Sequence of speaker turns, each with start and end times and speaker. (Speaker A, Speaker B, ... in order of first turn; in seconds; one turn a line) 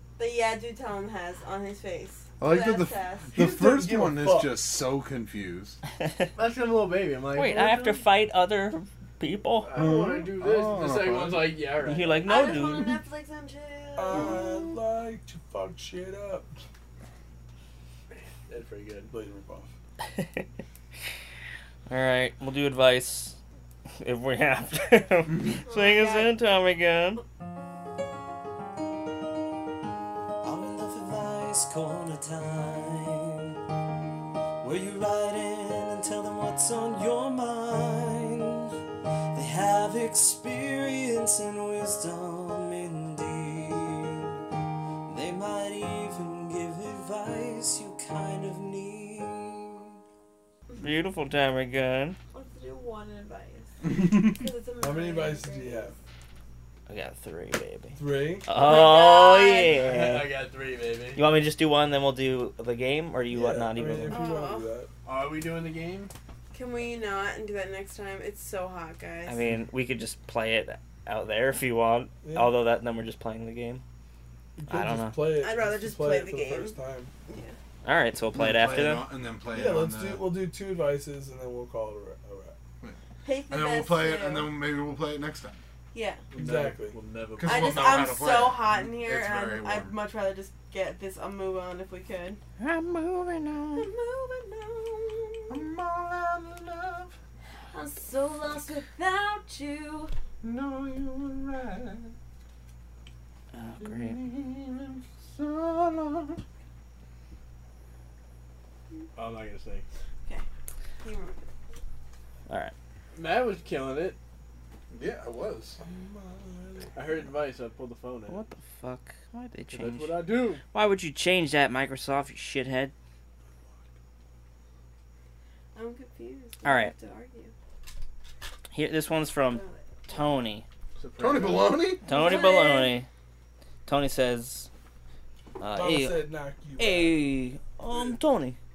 Speaker A: 0.2-3.3
Speaker B: 2.4-5.8
Speaker C: 3.3-4.6
Speaker D: 6.0-6.3
Speaker E: 6.4-8.0
Speaker D: 7.3-9.8
Speaker E: 9.6-12.3
Speaker B: 9.7-11.6
Speaker D: 11.8-13.0
Speaker A: 12.2-14.5
Speaker C: 14.0-16.5
Speaker B: 14.1-14.4
Speaker E: 18.1-19.1
Speaker C: 19.1-19.7
Speaker D: 20.0-20.4
Speaker D: 21.9-23.4
Speaker D: 24.0-27.2
Speaker A: 25.6-26.4
Speaker F: 30.4-33.5
Speaker F: 34.6-38.7
Speaker F: 39.3-44.3
Speaker F: 45.1-50.0
Speaker D: 50.8-52.2
Speaker A: 52.3-56.0
Speaker B: 53.9-54.3
Speaker C: 54.8-55.9
Speaker D: 56.9-60.3
Speaker C: 58.0-58.5
Speaker A: 58.5-59.8
Speaker E: 59.7-61.2
Speaker C: 59.9-60.2
Speaker D: 61.1-64.3
Speaker C: 63.3-64.9
Speaker A: 64.1-64.7
Speaker E: 65.0-66.1
Speaker A: 66.5-69.4
Speaker D: 69.3-73.8
Speaker C: 72.2-72.5
Speaker C: 74.6-77.1
Speaker D: 74.7-75.3
Speaker A: 75.4-76.8
Speaker A: 77.3-77.6
Speaker D: 77.8-79.1
Speaker B: 78.3-80.3
Speaker C: 79.5-82.6
Speaker A: 83.2-84.5
Speaker B: 83.5-85.6
Speaker A: 85.9-86.2
Speaker E: 86.3-87.9
Speaker C: 86.3-87.0
Speaker B: 87.4-90.0
Speaker A: 87.4-92.4
Speaker D: 92.6-93.9
Speaker A: 93.8-95.6
Speaker B: 95.5-97.2
Speaker A: 97.7-100.1
Speaker B: 100.4-102.1
Speaker D: 103.5-104.2
Speaker B: 103.8-106.4
Speaker E: 109.2-109.9
Speaker A: 111.0-111.5
Speaker E: 113.2-114.2
Speaker B: 114.9-115.8
Speaker C: 115.8-117.1
Speaker E: 116.9-118.4
Speaker D: 118.3-122.9
Speaker E: 119.7-120.6
Speaker A: 125.7-127.5
Speaker D: 126.6-126.9
Speaker D: 128.7-130.7
Speaker A: 129.4-130.4
Speaker E: 131.0-131.9
Speaker B: 131.2-132.0
Speaker D: 132.1-133.1
Speaker A: 132.1-133.0
Speaker D: 133.9-134.7
Speaker D: 135.6-136.3
Speaker C: 135.7-137.3
Speaker D: 136.8-138.6